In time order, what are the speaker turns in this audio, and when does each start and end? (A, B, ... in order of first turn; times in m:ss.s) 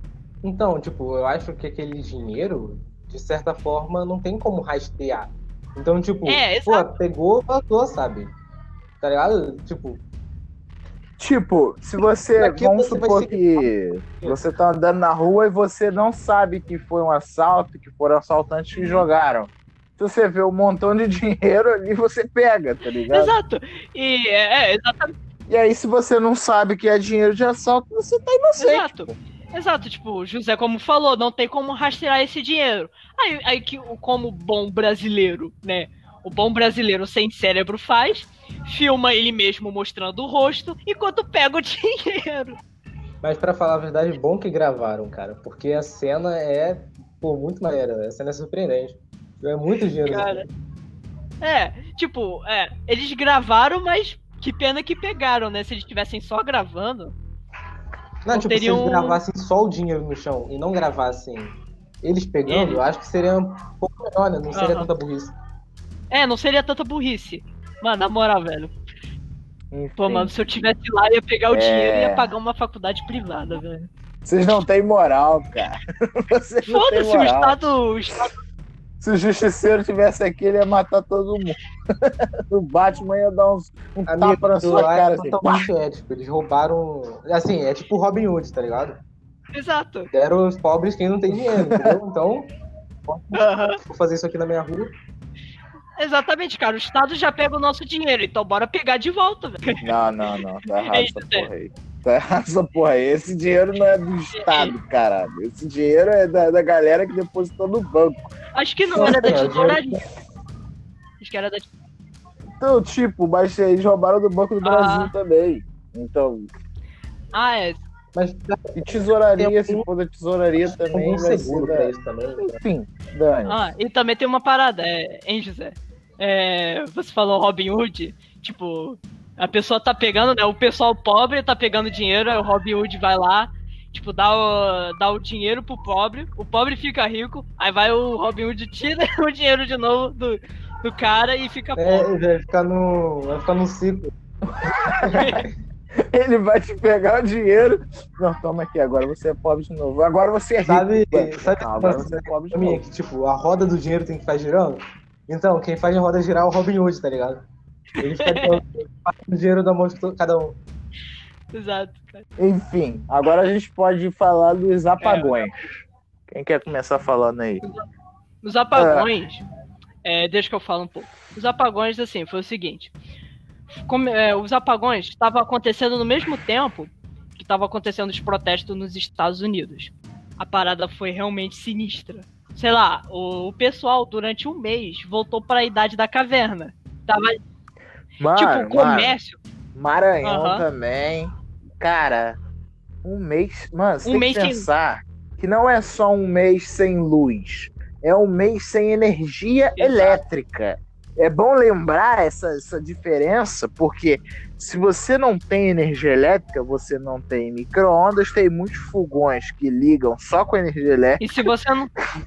0:00.4-0:08.3 A
0:06.3-0:06.9 B
0:09.0-0:10.0 A
0:11.2-0:23.4 C
0:12.4-0:14.4 A
0:18.7-0:19.1 B
0:23.1-0:25.2 B
0:25.5-0:29.2 C
0:28.6-0:42.6 B
0:43.2-0:50.5 A
0:50.0-0:50.4 B
0:51.4-0:57.1 B
0:58.3-1:05.3 A
0:58.3-0:59.2 B
1:02.5-1:02.8 B
1:04.5-1:04.9 B
1:06.1-1:08.7 B
1:09.7-1:10.3 C
1:10.0-1:13.9 B
1:11.5-1:12.3 C
1:14.2-1:15.8 C
1:16.3-1:17.7 C
1:16.7-1:18.4 B
1:19.0-1:25.7 C
1:24.1-1:29.0 A
1:29.5-1:30.1 B
1:30.1-1:32.5 A
1:31.5-1:32.0 C
1:33.3-1:33.8 B
1:33.8-1:34.9 A
1:36.0-1:39.8 B
1:39.8-1:48.3 C
1:40.8-1:41.5 B
1:44.3-1:44.7 B
1:48.6-1:50.0 B
1:48.9-1:50.0 A
1:51.2-1:51.7 B
1:52.6-1:56.5 C
1:54.6-1:55.1 B
1:57.3-1:57.8 B
1:58.1-1:59.9 A
1:58.8-2:01.9 C
2:00.6-2:02.6 A
2:02.5-2:03.7 C
2:03.5-2:22.1 B
2:21.8-2:24.1 A
2:24.6-2:25.2 C
2:25.1-2:25.4 B
2:26.1-2:32.8 C
2:30.6-2:37.5 A
2:38.0-2:40.6 A
2:38.1-2:38.6 B
2:41.5-2:42.2 B
2:42.4-2:45.6 C
2:45.0-2:45.5 B
2:46.3-2:47.6 C
2:48.4-2:49.4 B
2:48.7-2:49.1 C
2:50.0-2:52.9 B
2:53.7-3:07.4 B
3:08.2-3:09.2 C
3:08.4-3:09.4 B
3:09.8-3:12.4 C
3:10.2-3:10.6 B
3:13.0-3:31.4 C
3:14.0-3:14.7 B
3:19.8-3:20.2 B
3:31.2-3:31.9 B